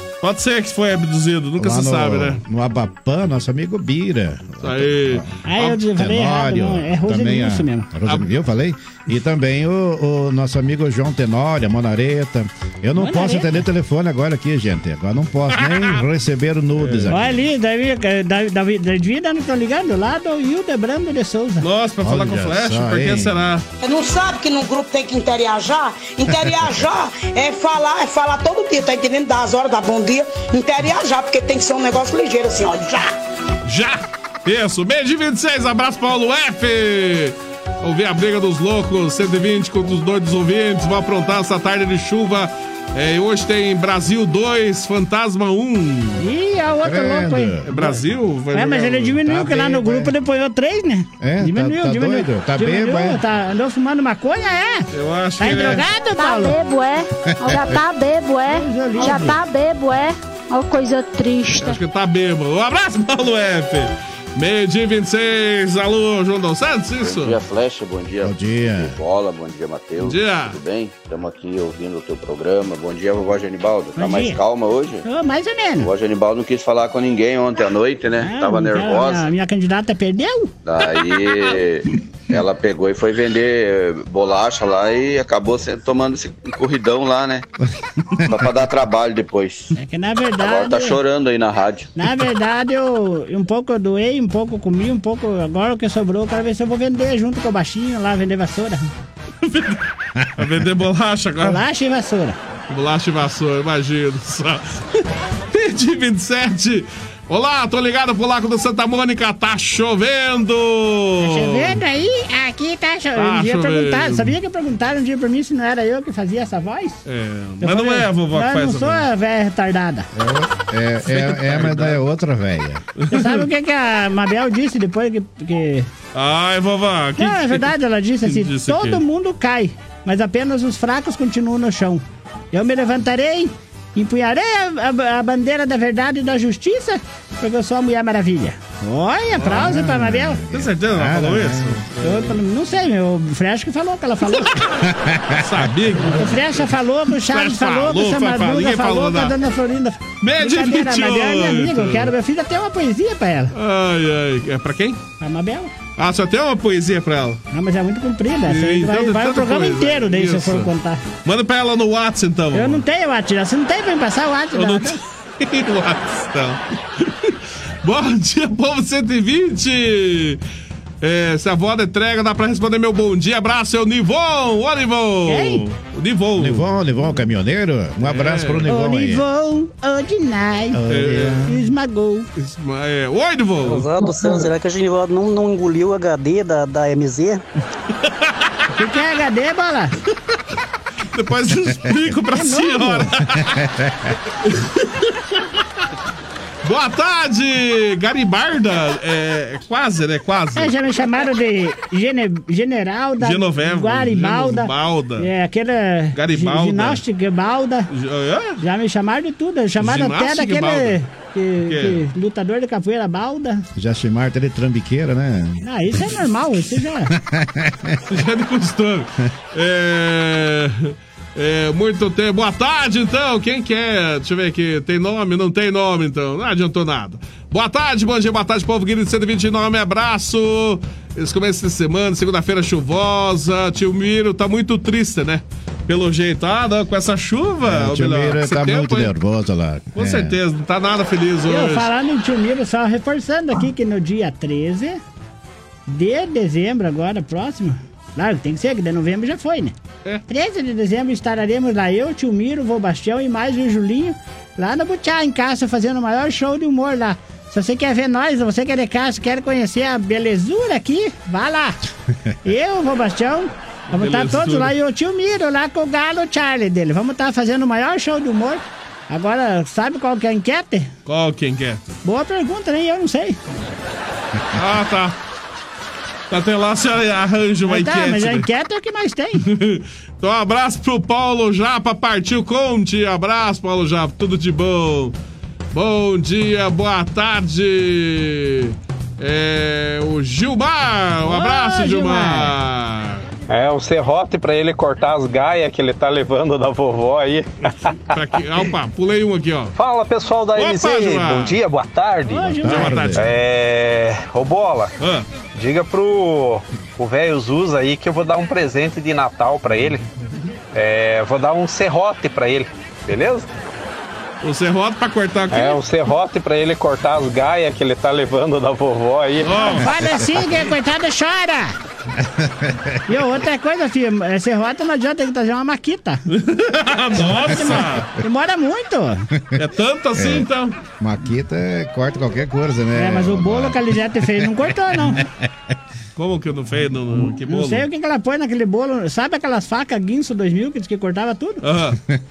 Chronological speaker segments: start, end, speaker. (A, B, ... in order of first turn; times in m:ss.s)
0:00.2-0:02.4 A
0:01.6-0:05.4 B
0:04.6-0:05.8 A
0:05.4-0:07.9 C
0:06.0-0:17.3 B
0:08.0-0:08.3 A
0:13.0-0:13.6 C
0:15.5-0:16.0 A
0:16.7-0:17.3 A
0:17.1-0:21.6 C
0:21.6-0:23.6 A
0:22.0-0:23.3 B
0:23.8-0:33.0 D
0:33.6-0:46.2 A
0:46.2-0:48.0 C
0:46.8-0:47.7 B
0:47.6-0:49.4 A
0:48.5-0:54.9 C
0:49.3-0:50.1 B
0:51.2-0:53.2 B
0:54.9-0:55.9 A
0:55.4-0:56.5 C
0:56.1-1:01.8 E
0:58.5-0:59.4 C
1:01.6-1:07.4 A
1:07.0-1:15.0 F
1:08.2-1:09.0 B
1:10.0-1:10.6 A
1:14.0-1:14.4 C
1:15.0-1:15.9 C
1:15.8-1:19.3 F
1:18.2-1:20.5 C
1:20.6-1:27.4 F
1:28.2-1:29.7 F
1:29.8-1:31.0 C
1:30.4-1:31.9 F
1:32.0-1:38.9 C
1:39.4-1:39.8 A
1:40.4-1:41.6 A
1:41.4-1:42.4 C
1:42.7-1:51.8 A
1:51.2-1:57.0 C
1:53.2-1:54.3 A
1:57.0-1:59.0 A
1:57.6-2:00.1 C
2:00.1-2:02.8 B
2:01.0-2:02.0 A
2:03.0-2:03.5 A
2:03.1-2:05.9 C
2:06.1-2:07.7 A
2:07.2-2:20.4 C
2:08.2-2:09.0 A
2:19.4-2:21.8 B
2:20.5-2:22.4 A
2:22.0-2:24.6 C
2:24.9-2:25.5 B
2:25.4-2:29.3 A
2:26.0-2:33.5 C
2:30.2-2:32.1 A
2:33.5-2:35.0 A
2:35.2-2:35.7 C
2:36.0-2:37.4 A
2:37.5-2:41.0 C
2:38.4-2:40.7 A
2:41.2-2:42.8 A
2:42.5-2:45.0 C
2:44.5-2:50.4 A
2:51.0-2:56.7 A
2:55.3-2:55.6 C
2:56.4-2:59.2 B
2:58.0-2:58.7 A
2:58.7-3:00.8 C
3:00.7-3:01.5 B
3:00.9-3:01.5 A
3:01.5-3:02.3 C
3:02.4-3:03.9 A
3:03.6-3:07.4 G
3:08.7-3:09.9 C
3:11.1-3:13.6 A
3:12.3-3:13.1 C
3:13.6-3:13.9 B
3:14.4-3:15.3 A
3:16.6-3:20.7 A
3:20.6-3:27.9 C
3:23.2-3:25.3 A
3:26.1-3:27.0 A
3:27.9-3:28.6 A
3:28.6-3:33.6 C
3:29.8-3:31.0 A
3:31.6-3:32.0 A
3:33.8-3:35.6 B
3:35.6-3:37.1 C
3:37.1-3:37.9 B
3:38.1-3:59.1 A
3:57.6-4:00.3 B
3:59.9-4:01.9 A
4:01.5-4:05.0 C
4:05.9-4:09.7 C
4:10.3-4:21.8 C
4:22.4-4:30.9 C
4:23.9-4:24.7 A
4:31.0-4:31.8 A
4:32.0-4:33.4 C
4:34.5-4:35.2 A
4:36.3-4:38.5 A
4:37.7-4:39.4 C
4:39.4-4:45.1 A
4:45.7-4:53.3 A
4:51.2-4:52.5 C
4:53.5-4:57.5 H
4:58.1-4:59.8 A
4:59.8-5:02.5 H
5:00.5-5:01.6 A
5:02.3-5:03.1 C
5:02.6-5:03.2 B
5:02.6-5:03.3 A
5:03.1-5:04.9 H
5:05.0-5:05.2 A
5:05.5-5:10.0 H
5:10.7-5:13.5 H
5:14.4-5:15.8 A
5:15.5-5:19.6 H
5:19.4-5:19.9 A
5:19.5-5:21.7 C
5:22.6-5:23.1 B
5:23.1-5:26.2 C
5:26.3-5:28.1 A
5:27.2-5:29.2 C
5:27.6-5:28.0 B
5:29.6-5:30.8 A
5:30.2-5:30.5 B
5:31.0-5:34.3 B
5:32.9-5:35.2 C
5:36.2-5:37.8 A
5:37.5-5:41.6 C
5:41.6-5:42.0 A